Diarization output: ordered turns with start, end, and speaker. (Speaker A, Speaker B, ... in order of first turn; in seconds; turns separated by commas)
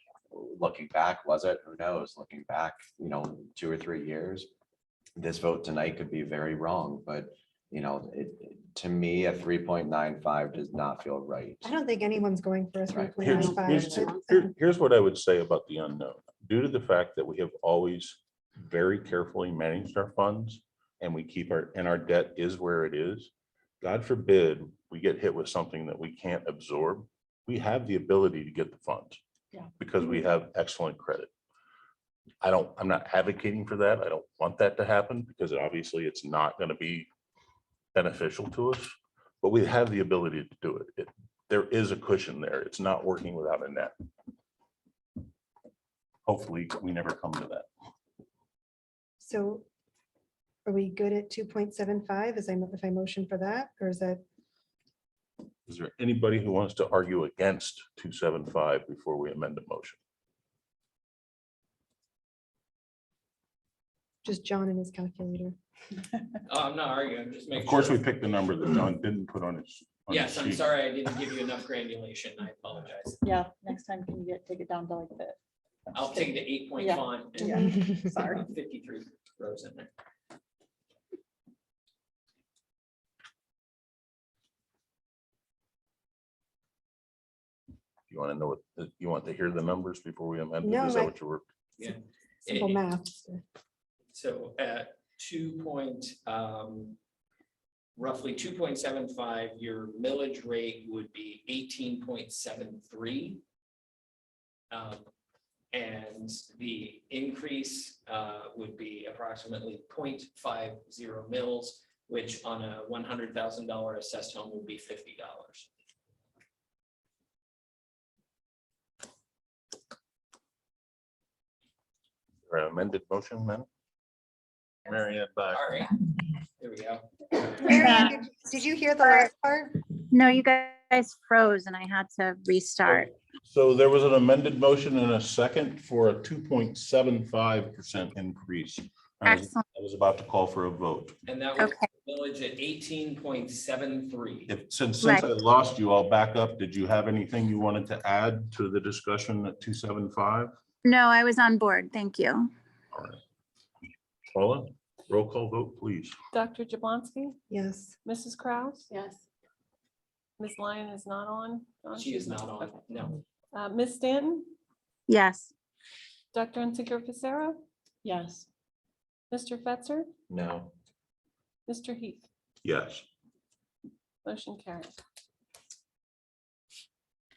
Speaker A: 0.3-4.5, Speaker A: 5.2-11.7, Speaker B: 11.6-14.5, Speaker A: 12.9-13.4, Speaker C: 13.2-23.3, Speaker C: 23.8-29.2, Speaker C: 29.8-31.3, Speaker C: 32.4-37.1, Speaker C: 37.9-43.9, Speaker C: 46.2-47.7, Speaker B: 49.2-49.6, Speaker B: 50.6-54.2, Speaker C: 55.7-60.0, Speaker B: 64.2-65.5, Speaker D: 66.5-68.0, Speaker C: 67.5-70.6, Speaker D: 70.1-73.2, Speaker E: 73.2-75.3, Speaker D: 75.9-79.9, Speaker E: 76.0-78.5, Speaker B: 77.4-78.1, Speaker C: 88.1-91.4, Speaker B: 90.6-91.1, Speaker D: 91.8-92.8, Speaker B: 92.5-93.4, Speaker D: 94.1-97.0, Speaker D: 98.0-103.4, Speaker D: 104.7-105.0, Speaker D: 105.7-115.7, Speaker C: 122.5-123.7, Speaker C: 124.8-125.6, Speaker D: 125.5-125.9, Speaker D: 126.6-127.8, Speaker B: 127.6-129.8, Speaker F: 127.8-128.1, Speaker F: 130.1-133.1, Speaker C: 132.8-141.2, Speaker F: 139.2-139.6, Speaker D: 141.2-144.5, Speaker C: 144.5-150.5, Speaker F: 150.8-152.5, Speaker C: 152.9-153.2, Speaker C: 154.3-156.1, Speaker G: 156.3-157.4, Speaker B: 157.5-157.9, Speaker G: 158.0-158.9, Speaker E: 158.9-159.2, Speaker G: 160.4-162.9, Speaker D: 162.0-163.2, Speaker G: 163.5-164.5, Speaker F: 165.1-165.5, Speaker G: 166.3-167.6, Speaker E: 168.0-168.5, Speaker G: 169.3-170.1, Speaker A: 170.3-170.7, Speaker G: 171.7-172.2, Speaker C: 172.6-173.0, Speaker G: 174.2-174.9